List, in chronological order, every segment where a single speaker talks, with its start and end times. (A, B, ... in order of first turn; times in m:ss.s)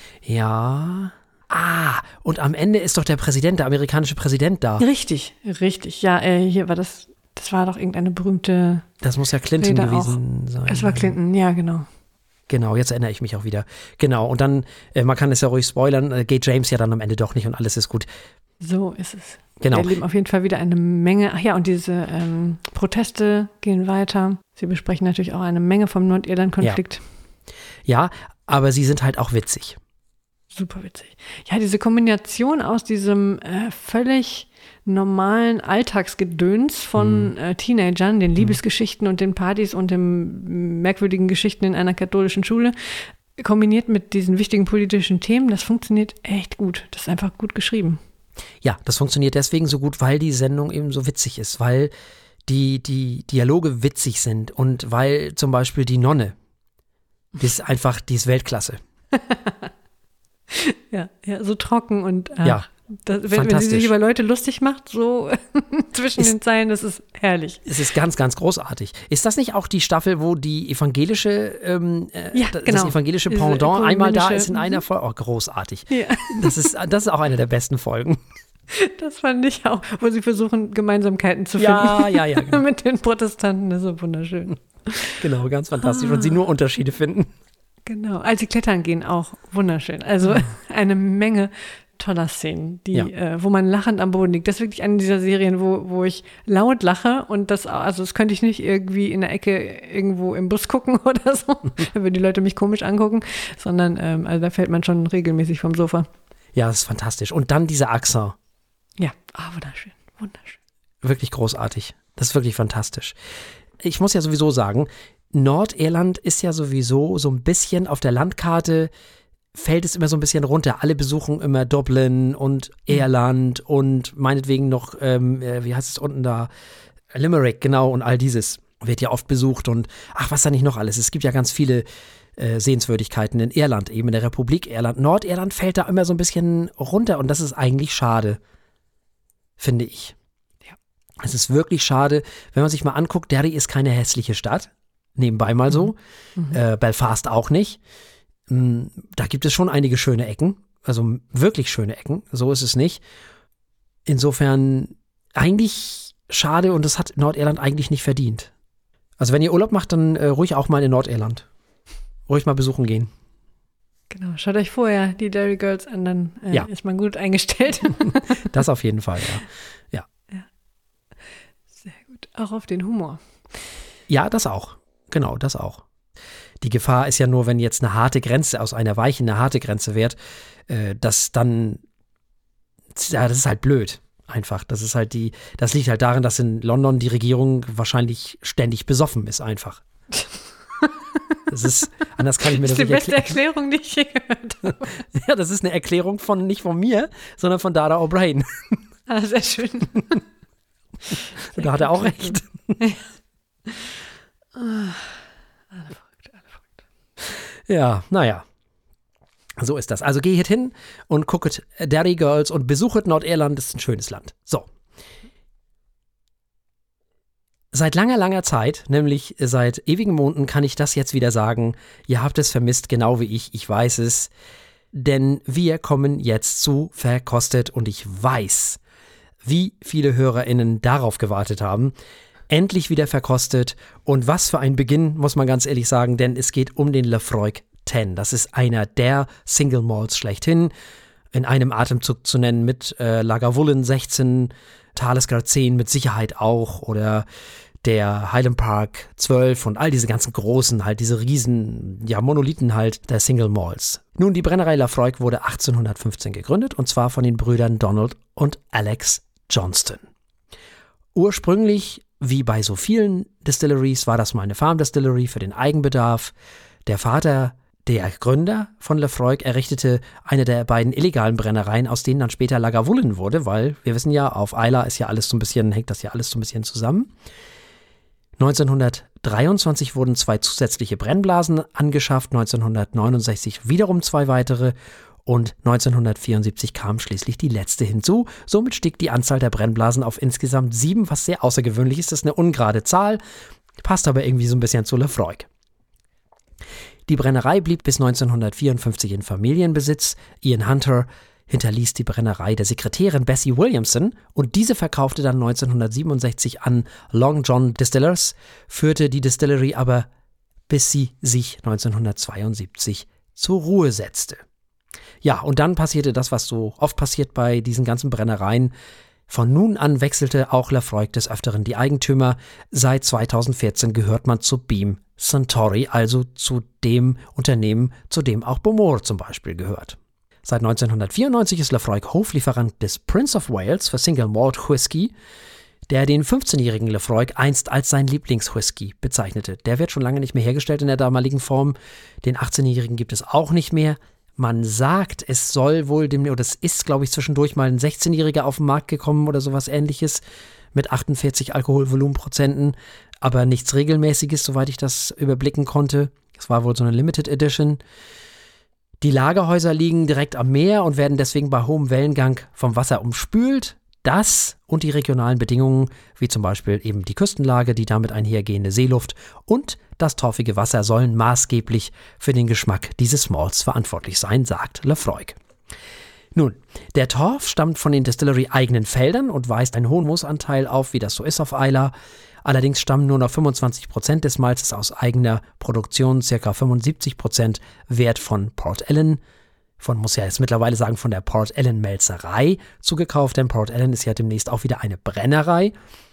0:00.2-0:04.8 A
0:04.8-0:08.9 B
0:09.0-0:11.2 A
0:09.6-0:11.9 B
0:12.5-0:18.1 A
0:18.6-0:27.0 B
0:19.6-0:19.9 A
0:27.9-0:29.8 A
0:30.5-0:48.0 B
0:37.0-0:37.3 A
0:48.6-0:51.9 A
0:52.5-0:56.4 A
0:57.4-0:58.8 A
0:59.1-0:59.7 B
1:00.5-1:07.7 B
1:03.3-1:03.9 A
1:07.7-1:18.2 A
1:12.3-1:14.8 B
1:15.9-1:16.7 B
1:18.7-1:25.2 B
1:21.6-1:22.6 A
1:25.2-1:27.3 A
1:25.8-1:26.4 B
1:27.9-1:46.1 B
1:46.6-1:48.4 A
1:49.0-1:50.6 B
1:51.0-1:53.2 A
1:53.8-1:58.9 A
1:59.6-2:06.5 A
2:07.1-2:11.8 A
2:12.4-2:18.4 A
2:19.6-2:20.2 A
2:21.2-2:26.0 A
2:26.5-2:27.8 A
2:28.5-2:33.0 A
2:34.1-2:38.5 A
2:39.2-2:41.5 A
2:42.3-2:43.1 A
2:44.1-2:48.5 B
2:48.0-2:50.0 A
2:51.8-2:53.2 B
2:54.1-2:55.8 A
2:56.6-3:00.2 A
3:00.7-3:01.8 A
3:03.0-3:09.8 A
3:10.8-3:11.4 B
3:11.5-3:13.4 A
3:12.4-3:15.0 B
3:15.1-3:18.8 A
3:19.1-3:20.2 B
3:21.5-3:22.8 A
3:21.6-3:23.0 B
3:23.7-3:24.0 B
3:24.5-3:26.8 B
3:27.7-3:28.4 A
3:29.6-3:34.7 A
3:37.7-3:44.3 A
3:44.9-3:48.8 A
3:49.4-3:51.9 A
3:52.5-4:00.7 A
4:01.3-4:07.3 A
4:07.8-4:20.0 A
4:21.2-4:26.3 A
4:26.9-4:37.1 A
4:38.4-4:44.8 A
4:45.3-4:53.2 A
4:53.8-4:55.5 A
4:57.1-5:10.1 A
5:10.7-5:14.4 A
5:15.2-5:18.7 A
5:19.3-5:35.1 A
5:35.9-5:50.2 A
5:50.7-5:57.8 A
5:59.0-6:15.4 A
6:16.4-6:21.9 A
6:22.4-6:29.2 A
6:29.8-6:35.7 A